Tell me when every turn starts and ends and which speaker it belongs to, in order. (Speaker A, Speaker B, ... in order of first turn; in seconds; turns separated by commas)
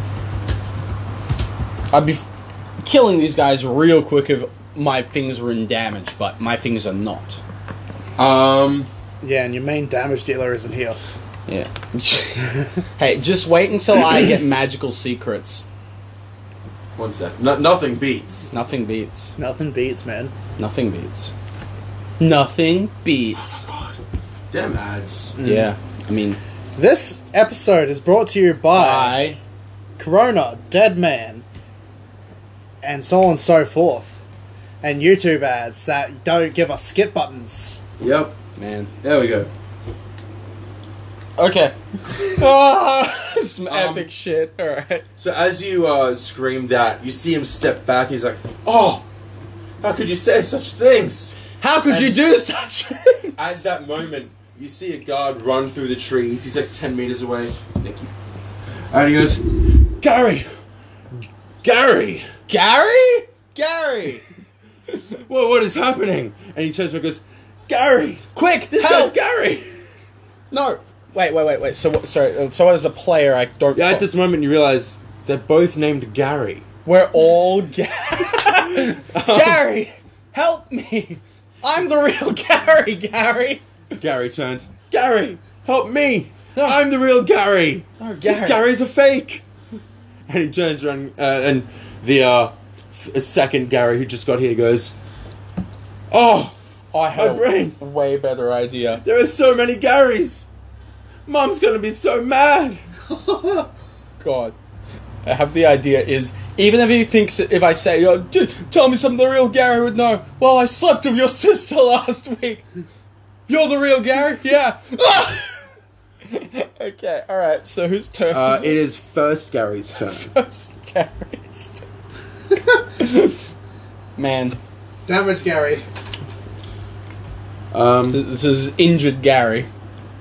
Speaker A: 1.9-2.2, Speaker A: 2.8-7.4, Speaker B: 8.2-8.9, Speaker C: 9.2-11.0, Speaker A: 11.5-15.6, Speaker B: 16.9-18.5, Speaker A: 18.5-19.3, Speaker C: 19.4-20.3, Speaker A: 20.6-21.3, Speaker A: 22.2-23.6, Speaker B: 23.5-25.4, Speaker C: 25.4-25.7, Speaker A: 25.4-26.4, Speaker C: 26.8-29.2, Speaker A: 28.7-29.4, Speaker C: 30.0-31.4, Speaker C: 32.8-34.2, Speaker C: 34.8-37.8, Speaker B: 38.0-38.4, Speaker A: 38.5-38.9, Speaker B: 39.0-39.5, Speaker A: 41.4-45.1, Speaker B: 43.6-44.1, Speaker B: 45.2-49.0, Speaker B: 49.8-51.3, Speaker A: 51.6-53.6, Speaker B: 51.9-52.2, Speaker B: 53.4-58.1, Speaker B: 58.9-60.5, Speaker B: 61.6-62.3, Speaker A: 62.5-64.2, Speaker B: 65.1-69.7, Speaker A: 68.3-69.1, Speaker A: 70.5-74.0, Speaker B: 73.7-76.7, Speaker A: 76.8-83.6, Speaker B: 78.3-79.6, Speaker B: 84.0-89.4, Speaker A: 88.0-88.6, Speaker B: 90.3-94.9, Speaker B: 96.1-96.5, Speaker A: 96.9-99.0, Speaker B: 97.1-97.8, Speaker B: 99.0-100.5, Speaker B: 101.3-102.8, Speaker C: 103.1-103.7, Speaker A: 104.2-104.5, Speaker A: 105.2-112.6, Speaker A: 113.5-115.7, Speaker A: 116.3-118.8, Speaker B: 118.3-120.3, Speaker A: 120.0-121.8, Speaker A: 123.0-123.3, Speaker A: 124.2-124.6, Speaker C: 125.1-125.8, Speaker B: 127.7-128.2, Speaker A: 128.1-129.7